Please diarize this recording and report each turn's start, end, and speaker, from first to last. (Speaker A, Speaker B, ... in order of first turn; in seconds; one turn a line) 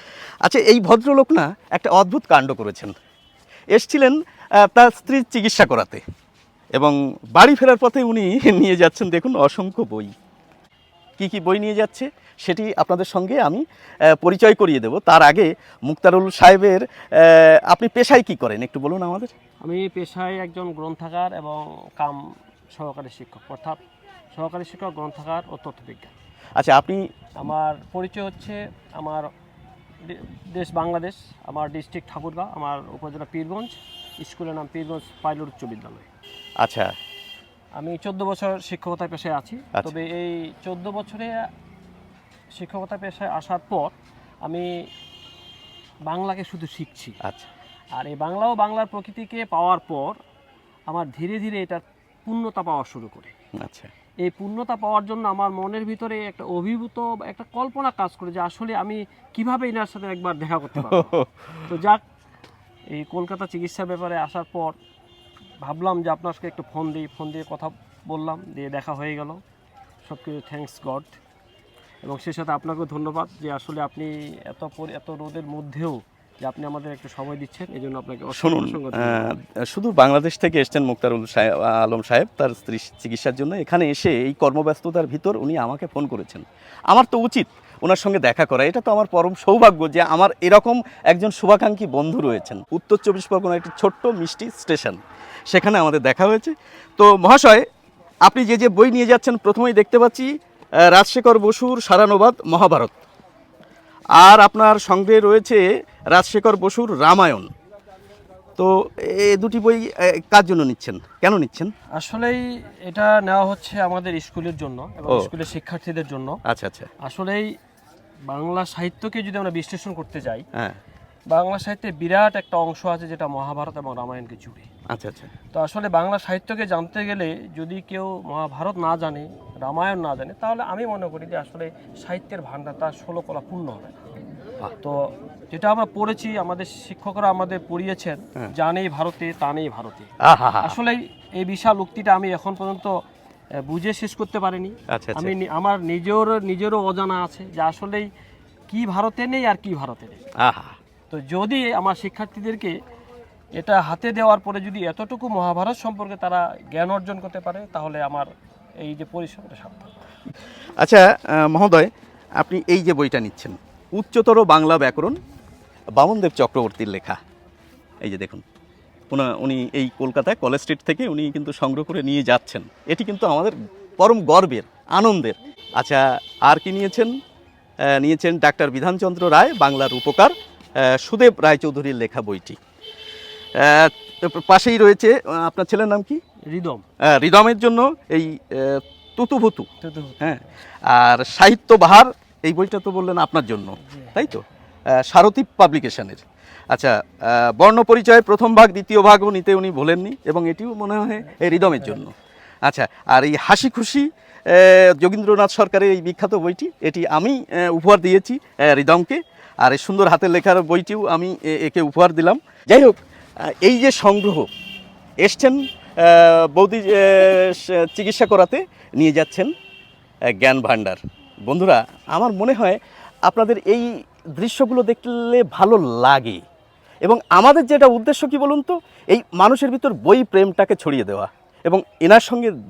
Speaker A: 0.4-2.9
Speaker A: 3.7-6.0
Speaker A: 6.8-10.1
Speaker A: 11.2-19.3
Speaker B: 19.6-23.8
Speaker B: 24.3-26.1
Speaker A: 26.6-27.1
Speaker B: 27.4-29.3
Speaker B: 30.0-36.1
Speaker A: 36.6-36.9
Speaker B: 37.8-41.5
Speaker B: 42.5-44.8
Speaker B: 46.1-47.2
Speaker A: 47.2-47.5
Speaker B: 47.9-50.2
Speaker B: 50.9-53.3
Speaker A: 53.5-53.9
Speaker B: 54.2-62.0
Speaker A: 60.8-61.7
Speaker B: 62.9-64.8
Speaker B: 65.6-69.4
Speaker B: 70.0-71.2
Speaker B: 72.0-79.4
Speaker A: 78.3-97.7
Speaker A: 98.3-100.3
Speaker A: 100.9-103.0
Speaker A: 104.2-107.5
Speaker A: 108.6-111.7
Speaker B: 112.0-116.4
Speaker A: 116.5-116.9
Speaker B: 117.0-117.5
Speaker B: 118.3-120.5
Speaker B: 121.3-124.7
Speaker A: 124.9-125.3
Speaker B: 125.5-134.2
Speaker B: 134.8-143.0
Speaker A: 140.2-140.8
Speaker B: 143.6-148.1
Speaker A: 144.9-145.3
Speaker B: 148.7-150.2
Speaker A: 150.4-150.8
Speaker B: 151.1-152.8
Speaker B: 153.6-158.3
Speaker B: 158.8-159.9
Speaker A: 160.8-165.2
Speaker A: 166.0-167.2
Speaker A: 168.0-168.4
Speaker A: 169.1-177.2
Speaker A: 177.8-182.6
Speaker A: 183.6-186.2
Speaker B: 186.5-186.8
Speaker A: 187.0-189.7
Speaker B: 189.8-190.5
Speaker A: 190.2-194.4
Speaker B: 193.8-194.4
Speaker A: 194.9-202.1
Speaker B: 201.2-202.1
Speaker A: 202.7-214.5
Speaker A: 215.2-219.5
Speaker A: 220.3-226.4
Speaker A: 227.1-232.5